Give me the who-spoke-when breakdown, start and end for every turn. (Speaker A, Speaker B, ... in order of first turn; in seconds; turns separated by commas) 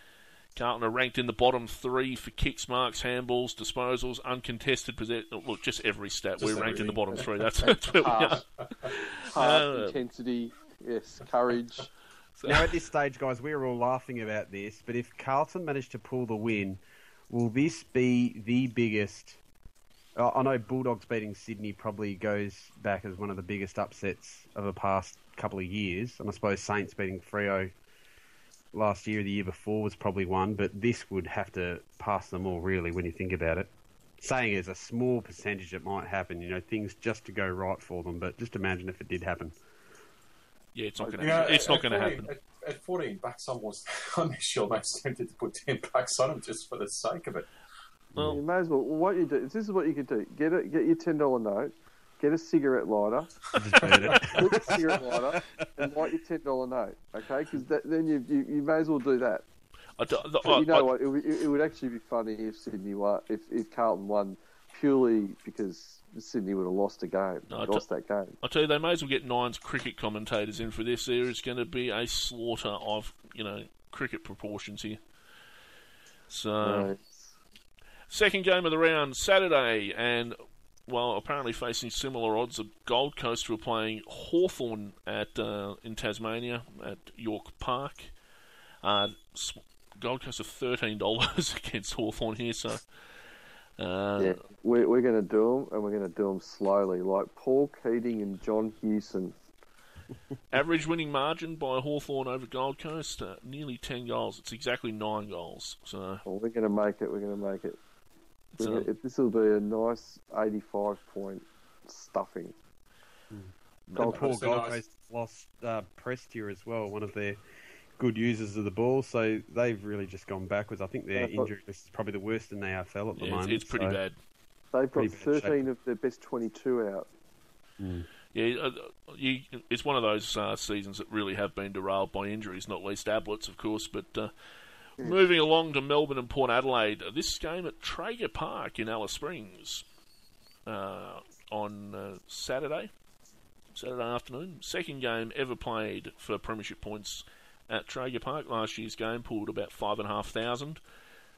Speaker A: 0.6-10.0, Speaker B: 6.4-7.3, Speaker C: 8.0-8.4, Speaker C: 9.3-11.9, Speaker A: 12.4-12.7, Speaker D: 12.5-19.4, Speaker D: 20.2-27.7, Speaker D: 28.7-33.7, Speaker D: 34.2-39.5, Speaker A: 40.7-42.3, Speaker C: 41.0-41.4, Speaker B: 41.2-47.5, Speaker D: 48.1-48.4, Speaker C: 48.2-53.3, Speaker D: 53.5-55.9, Speaker C: 53.9-59.5, Speaker A: 60.0-61.0, Speaker C: 60.4-68.4, Speaker A: 67.5-67.8, Speaker A: 68.4-75.0, Speaker A: 76.3-76.9, Speaker C: 76.6-77.3, Speaker A: 78.1-88.1, Speaker A: 88.8-92.8, Speaker A: 93.8-94.4, Speaker C: 94.2-99.4, Speaker A: 100.5-106.2, Speaker C: 106.3-107.8, Speaker A: 108.5-108.9, Speaker C: 108.6-112.6, Speaker D: 113.3-117.4, Speaker A: 113.9-114.2, Speaker C: 114.0-114.2, Speaker B: 114.0-114.8, Speaker D: 118.0-124.0, Speaker C: 121.2-121.5, Speaker A: 123.2-124.2, Speaker C: 124.7-127.1, Speaker D: 124.9-125.7, Speaker D: 127.8-128.1, Speaker A: 128.3-134.3, Speaker A: 135.0-139.9, Speaker A: 140.7-142.9, Speaker A: 143.8-150.8